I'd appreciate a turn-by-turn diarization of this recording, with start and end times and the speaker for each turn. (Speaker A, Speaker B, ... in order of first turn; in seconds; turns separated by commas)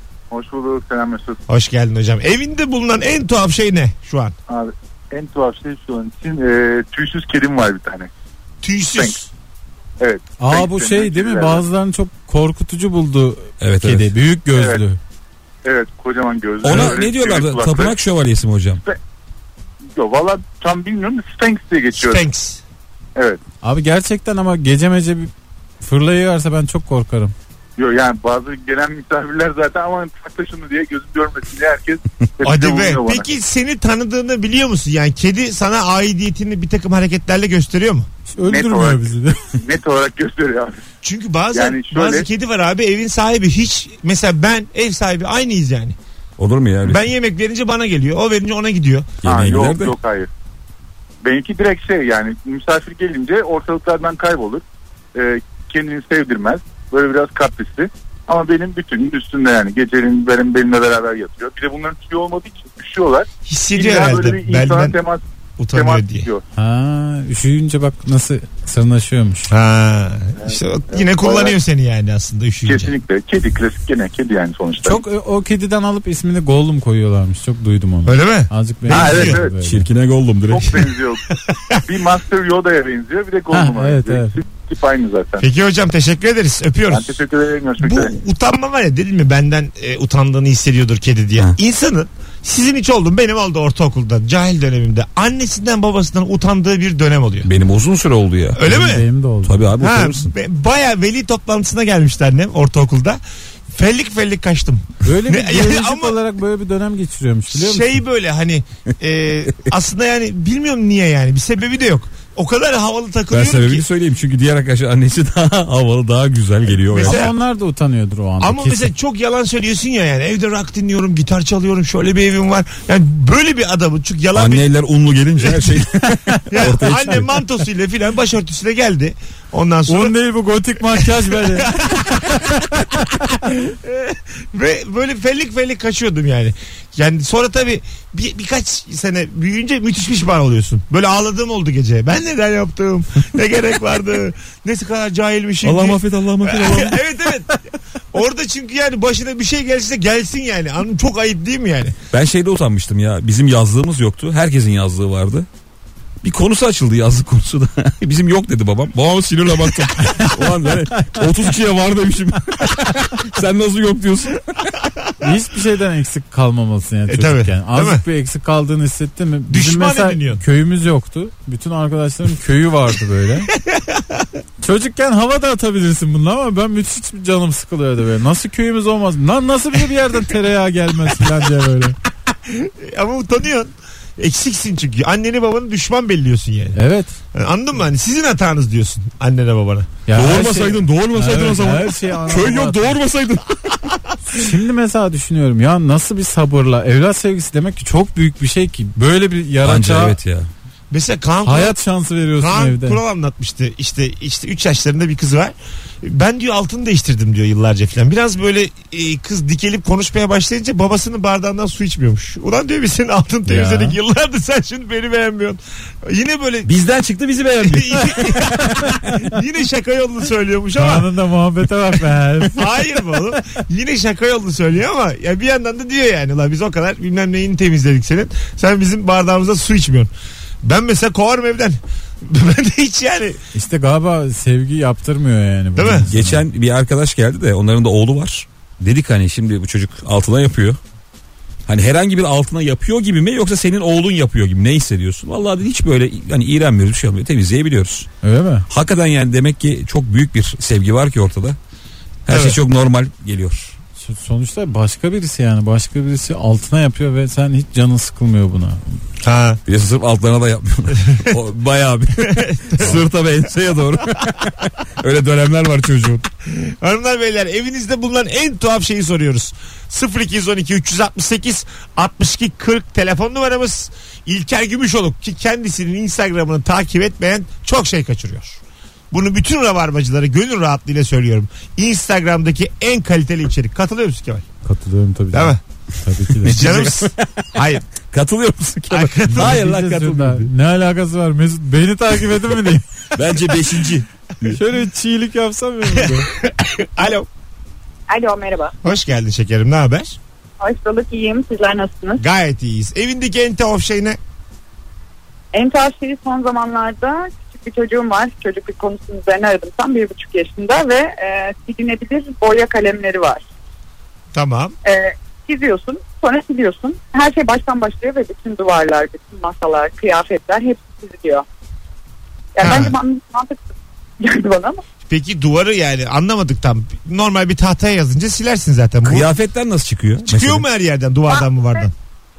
Speaker A: 0.3-1.4, Speaker B: 1.5-4.3, Speaker A: 4.5-8.1, Speaker B: 8.6-9.3, Speaker A: 10.0-11.6, Speaker C: 10.4-15.0, Speaker D: 13.6-14.1, Speaker A: 14.5-14.8, Speaker A: 15.6-17.9, Speaker D: 16.6-18.8, Speaker A: 19.9-22.2, Speaker B: 21.9-22.6, Speaker C: 23.6-27.3, Speaker A: 27.8-33.3, Speaker B: 32.4-38.1, Speaker C: 38.3-39.4, Speaker A: 38.4-40.8, Speaker B: 41.0-46.0, Speaker A: 41.5-42.3, Speaker D: 46.4-47.0, Speaker B: 46.8-49.1, Speaker D: 49.2-49.9, Speaker A: 49.2-50.3, Speaker A: 51.2-54.6, Speaker A: 55.1-66.4, Speaker B: 63.5-65.0, Speaker B: 65.6-66.3, Speaker C: 66.5-69.5, Speaker B: 69.5-72.9, Speaker A: 70.4-71.5, Speaker A: 72.7-75.0, Speaker C: 74.8-79.8, Speaker B: 78.0-79.4, Speaker A: 78.9-79.5, Speaker D: 79.6-80.9, Speaker A: 80.5-81.2, Speaker B: 81.3-81.8, Speaker A: 81.8-85.5, Speaker C: 83.5-84.4, Speaker B: 85.4-87.2, Speaker A: 86.9-88.1, Speaker B: 87.8-97.5, Speaker D: 97.4-98.7, Speaker B: 98.5-99.0, Speaker C: 98.6-99.6, Speaker D: 99.4-100.3, Speaker B: 99.8-106.2, Speaker C: 105.0-108.0, Speaker B: 107.5-113.8, Speaker D: 113.3-117.3, Speaker B: 116.9-117.3, Speaker C: 117.0-118.9, Speaker B: 118.4-124.7, Speaker D: 124.3-127.3, Speaker B: 125.4-125.8, Speaker B: 126.5-130.2, Speaker C: 129.9-132.9, Speaker B: 130.8-147.6, Speaker D: 145.6-147.0, Speaker B: 148.1-152.0, Speaker D: 152.1-155.5, Speaker D: 156.2-164.7, Speaker C: 160.9-161.2, Speaker C: 165.2-173.5, Speaker B: 167.1-168.0, Speaker B: 169.5-170.4, Speaker B: 173.6-174.3, Speaker C: 174.6-181.9, Speaker B: 182.3-186.8, Speaker C: 186.7-187.1, Speaker B: 187.3-189.9, Speaker C: 190.1-193.0, Speaker D: 190.1-193.9, Speaker C: 194.3-200.2, Speaker D: 199.6-200.5, Speaker B: 200.9-201.8, Speaker C: 201.4-203.0, Speaker B: 202.4-216.7, Speaker C: 213.5-214.0, Speaker D: 216.6-218.8, Speaker B: 217.6-221.1, Speaker C: 220.8-222.7, Speaker B: 222.5-230.1, Speaker B: 230.6-233.4, Speaker C: 233.5-236.4, Speaker B: 235.8-236.1, Speaker D: 236.1-240.8, Speaker D: 241.7-248.1, Speaker C: 248.2-248.7, Speaker D: 248.7-251.6, Speaker D: 252.2-253.7, Speaker B: 252.3-252.6, Speaker C: 254.0-259.0, Speaker B: 259.2-259.6, Speaker D: 259.7-266.3, Speaker B: 262.2-263.1, Speaker B: 266.5-278.6, Speaker B: 279.1-284.4, Speaker C: 284.6-286.6, Speaker B: 285.3-285.6, Speaker D: 286.4-287.5, Speaker B: 286.4-287.8, Speaker D: 288.1-290.5, Speaker B: 288.9-289.6, Speaker C: 289.3-292.9, Speaker D: 293.1-294.6, Speaker C: 294.5-296.3, Speaker B: 295.9-297.3, Speaker E: 298.1-298.8, Speaker B: 298.8-300.2, Speaker E: 300.6-302.2, Speaker B: 302.2-304.2, Speaker E: 305.5-313.4, Speaker B: 314.3-314.8, Speaker E: 314.8-321.4, Speaker E: 322.6-324.8, Speaker B: 322.6-322.9, Speaker B: 325.1-329.3, Speaker D: 329.0-330.6, Speaker B: 330.2-331.9, Speaker E: 331.3-331.9